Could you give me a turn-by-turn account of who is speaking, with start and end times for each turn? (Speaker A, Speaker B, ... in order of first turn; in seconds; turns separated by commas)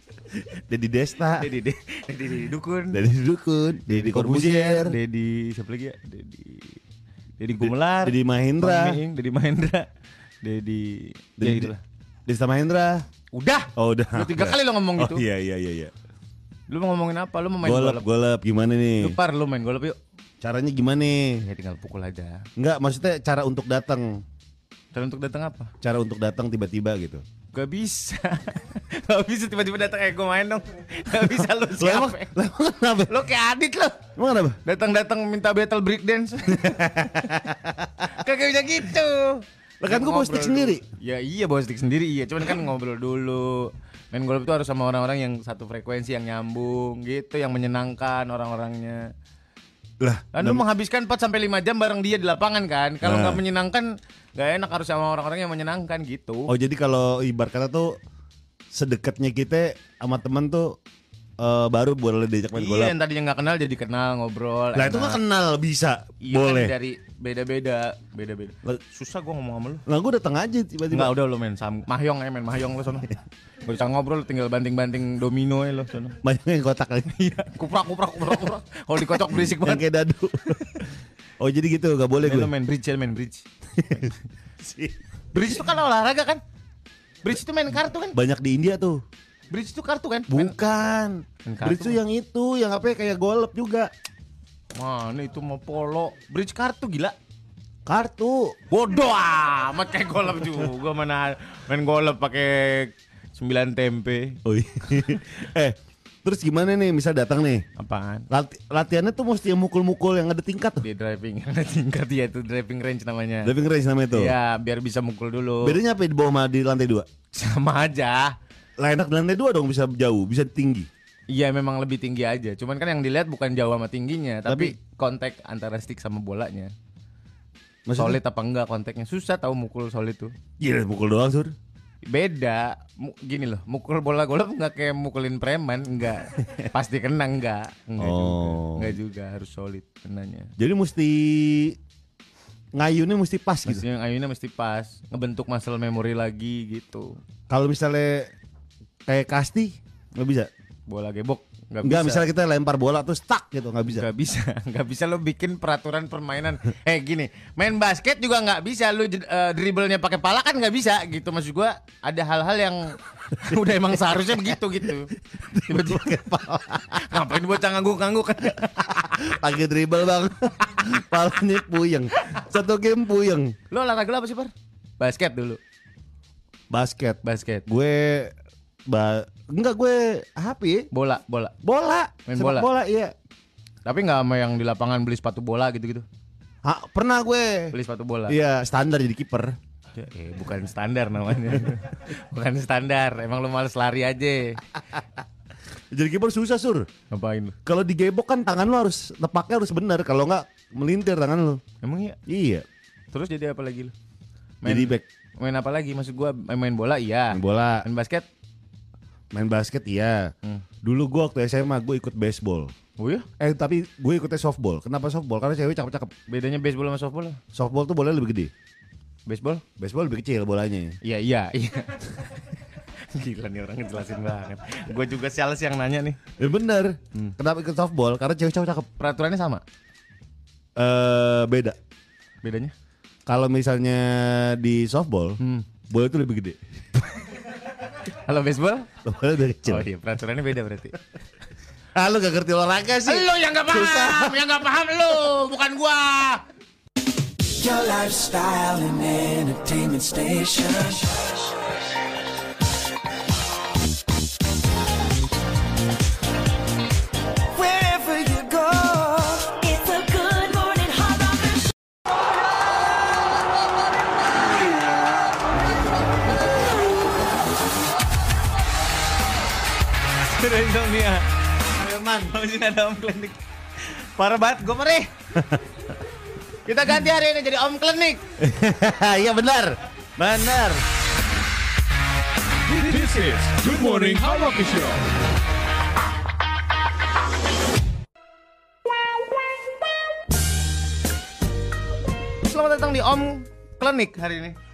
Speaker A: 0.5-1.5, Speaker B: 1.4-3.0, Speaker A: 2.9-5.0, Speaker B: 3.9-6.8, Speaker B: 7.4-9.9, Speaker A: 7.6-9.0, Speaker B: 10.4-11.8, Speaker A: 11.4-11.7, Speaker A: 12.2-13.0, Speaker B: 13.3-15.2, Speaker A: 13.7-15.9, Speaker B: 16.7-18.0, Speaker A: 17.6-19.2, Speaker B: 19.0-20.0, Speaker A: 20.4-21.4, Speaker B: 21.4-22.4, Speaker A: 22.6-24.2, Speaker B: 24.9-25.7, Speaker A: 25.8-27.2, Speaker B: 27.5-32.3, Speaker A: 31.8-33.1, Speaker B: 33.1-34.1, Speaker A: 34.1-34.6, Speaker B: 34.6-37.4, Speaker A: 36.6-37.9, Speaker B: 38.0-49.1, Speaker A: 39.8-40.8, Speaker A: 50.0-50.6, Speaker B: 50.3-56.5, Speaker A: 53.0-53.4, Speaker A: 56.5-58.0, Speaker A: 58.7-60.8, Speaker A: 61.4-62.9, Speaker B: 62.5-65.2, Speaker A: 64.7-66.7, Speaker B: 66.2-69.8, Speaker A: 69.8-71.1, Speaker B: 70.9-76.2, Speaker A: 76.2-77.1, Speaker B: 77.1-79.8, Speaker A: 79.2-80.9, Speaker A: 81.4-82.5, Speaker B: 82.2-84.1, Speaker A: 83.8-84.9, Speaker B: 85.3-86.4, Speaker B: 87.2-88.2, Speaker A: 88.1-89.0, Speaker B: 89.5-90.5, Speaker A: 90.3-93.9, Speaker B: 91.4-92.0, Speaker B: 94.7-97.1, Speaker A: 97.8-98.5, Speaker B: 98.7-104.4, Speaker A: 104.4-107.6, Speaker B: 107.8-108.3, Speaker A: 108.3-110.8, Speaker B: 110.8-113.5, Speaker A: 113.4-114.3, Speaker B: 114.1-115.8, Speaker A: 115.6-117.1, Speaker B: 117.3-118.3, Speaker A: 118.8-120.9, Speaker B: 121.3-126.7, Speaker A: 124.5-124.7, Speaker A: 127.8-128.2, Speaker B: 128.0-130.3, Speaker A: 130.6-131.5, Speaker B: 132.0-140.5, Speaker A: 138.0-139.0, Speaker A: 140.6-141.8, Speaker A: 142.7-143.8, Speaker B: 143.7-147.2, Speaker A: 147.5-148.3, Speaker A: 149.1-150.5, Speaker B: 150.9-152.2, Speaker A: 151.8-154.1, Speaker B: 153.9-166.2, Speaker A: 165.5-167.0, Speaker B: 166.9-169.0, Speaker A: 168.8-173.5, Speaker B: 173.7-175.6, Speaker A: 176.7-178.3, Speaker B: 177.2-177.6, Speaker A: 178.9-180.9, Speaker B: 180.9-181.5, Speaker A: 181.6-183.1, Speaker B: 182.3-182.7, Speaker B: 183.8-186.0, Speaker A: 186.6-187.7, Speaker B: 187.7-188.4, Speaker A: 188.3-189.6, Speaker B: 189.9-194.6, Speaker A: 195.9-196.9, Speaker B: 197.1-197.6, Speaker A: 197.6-201.6, Speaker B: 201.8-202.2, Speaker A: 202.3-202.7, Speaker B: 203.1-203.9, Speaker B: 204.6-208.3, Speaker A: 204.6-205.0, Speaker A: 207.3-207.8, Speaker A: 209.3-212.7, Speaker B: 213.0-213.2, Speaker A: 213.4-216.1, Speaker B: 216.3-217.4, Speaker A: 217.5-218.5, Speaker B: 219.2-219.6, Speaker A: 219.8-221.0, Speaker B: 221.0-222.4, Speaker B: 223.0-226.2, Speaker A: 226.4-228.9, Speaker B: 229.0-229.6, Speaker A: 230.8-231.8, Speaker B: 232.4-232.7, Speaker A: 233.2-236.6, Speaker B: 235.4-235.7, Speaker B: 238.1-238.9, Speaker A: 239.0-239.9, Speaker B: 239.6-241.0, Speaker A: 241.9-244.4, Speaker B: 243.1-246.4, Speaker C: 247.6-251.3, Speaker C: 257.6-259.5, Speaker D: 259.4-261.7, Speaker B: 270.2-271.3, Speaker A: 271.7-272.3, Speaker B: 272.3-275.1, Speaker A: 275.4-275.6, Speaker B: 276.6-278.2, Speaker A: 278.4-280.8, Speaker E: 282.7-285.1, Speaker B: 292.4-294.6